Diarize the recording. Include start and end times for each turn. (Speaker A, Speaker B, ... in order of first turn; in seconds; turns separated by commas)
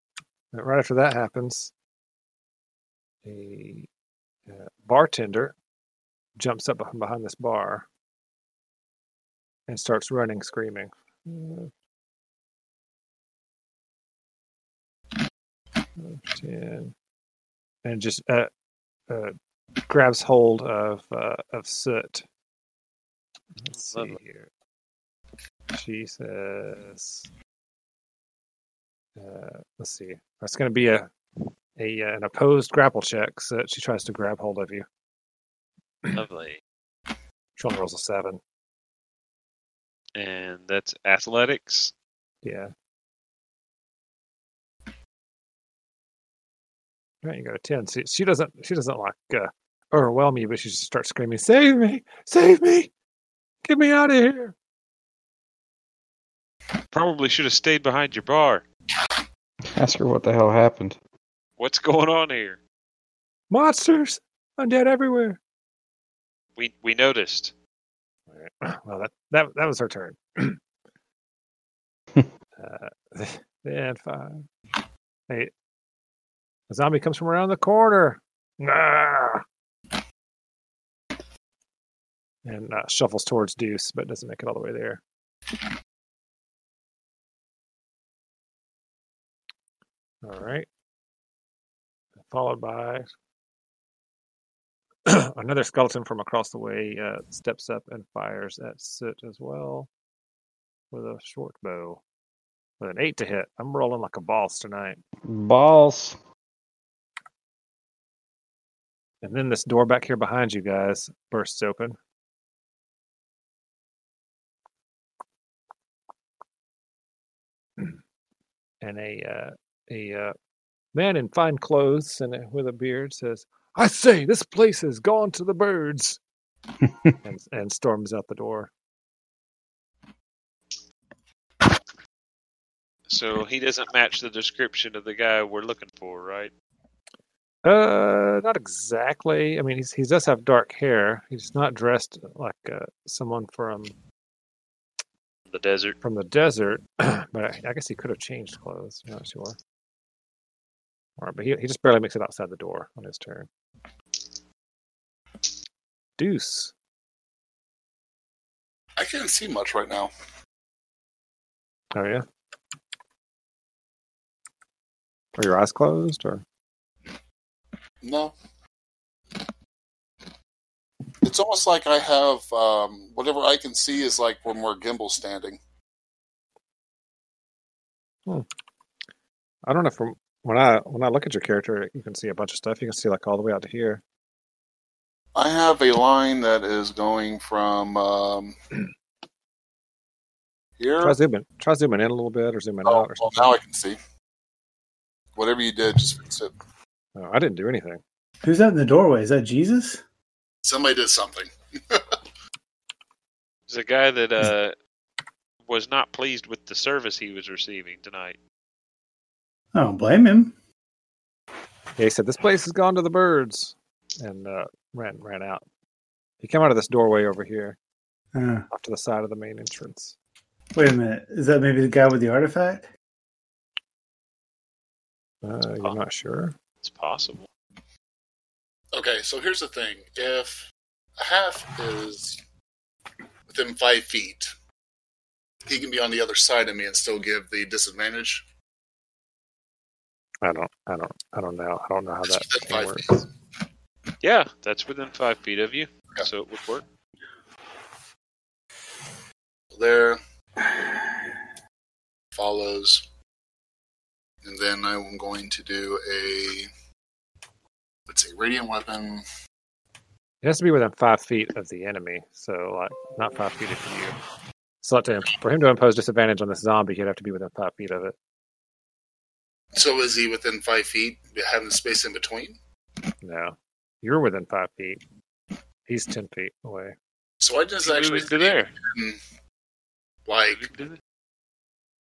Speaker A: 0.5-1.7, Speaker A: 3.2-3.9, Speaker A: 4.5-5.6, Speaker A: 6.4-7.9, Speaker A: 9.7-11.7, Speaker A: 16.0-16.9, Speaker A: 17.9-18.5, Speaker A: 19.1-22.2, Speaker A: 23.6-24.5, Speaker B: 23.7-24.2, Speaker A: 25.7-27.3, Speaker A: 29.2-31.1, Speaker A: 31.8-34.9, Speaker B: 36.1-36.6, Speaker A: 37.6-38.4, Speaker B: 40.2-41.9, Speaker A: 42.4-42.7, Speaker A: 47.2-52.9, Speaker A: 53.7-54.5, Speaker B: 56.9-58.6, Speaker C: 59.7-61.0, Speaker B: 61.6-62.6, Speaker A: 63.5-65.4, Speaker B: 66.6-67.5, Speaker A: 68.3-70.6, Speaker A: 72.6-74.5, Speaker A: 76.7-79.4, Speaker A: 82.5-85.0, Speaker A: 90.2-90.7, Speaker A: 92.3-93.1, Speaker A: 95.1-99.9, Speaker A: 100.9-102.0, Speaker A: 102.8-105.0, Speaker C: 105.2-106.2, Speaker A: 109.2-112.0, Speaker A: 118.8-120.3, Speaker A: 120.9-126.2, Speaker A: 127.2-128.7, Speaker B: 133.1-136.5, Speaker A: 137.7-143.9, Speaker B: 145.5-146.0, Speaker A: 146.0-149.6, Speaker A: 151.2-153.5, Speaker A: 156.2-156.7, Speaker D: 159.0-160.1, Speaker A: 161.9-162.2, Speaker A: 165.4-166.4, Speaker D: 168.0-168.3, Speaker D: 171.2-175.6, Speaker A: 179.7-184.0, Speaker D: 185.3-188.6, Speaker D: 190.8-191.2, Speaker A: 191.0-193.6, Speaker D: 192.8-194.0, Speaker D: 195.3-196.5, Speaker A: 197.2-198.0, Speaker E: 198.4-200.0, Speaker D: 200.6-202.2, Speaker B: 203.7-204.8, Speaker B: 205.7-208.4, Speaker E: 209.7-210.5, Speaker A: 212.0-215.7, Speaker A: 216.4-217.8, Speaker E: 218.3-218.7, Speaker A: 218.7-220.2, Speaker E: 220.8-222.9, Speaker A: 225.4-226.6, Speaker B: 226.8-227.5, Speaker D: 228.9-232.4, Speaker D: 233.5-234.5, Speaker D: 235.7-238.4, Speaker A: 240.4-243.2, Speaker D: 242.3-243.2, Speaker B: 244.2-246.8, Speaker D: 249.7-250.2, Speaker D: 252.3-253.1, Speaker D: 254.4-256.7, Speaker D: 258.1-259.2, Speaker A: 260.4-264.2, Speaker A: 264.8-268.1, Speaker D: 269.7-272.6, Speaker A: 273.2-275.0, Speaker A: 275.9-276.9, Speaker D: 277.4-279.2, Speaker B: 277.8-278.7, Speaker D: 280.3-280.7, Speaker B: 280.5-281.0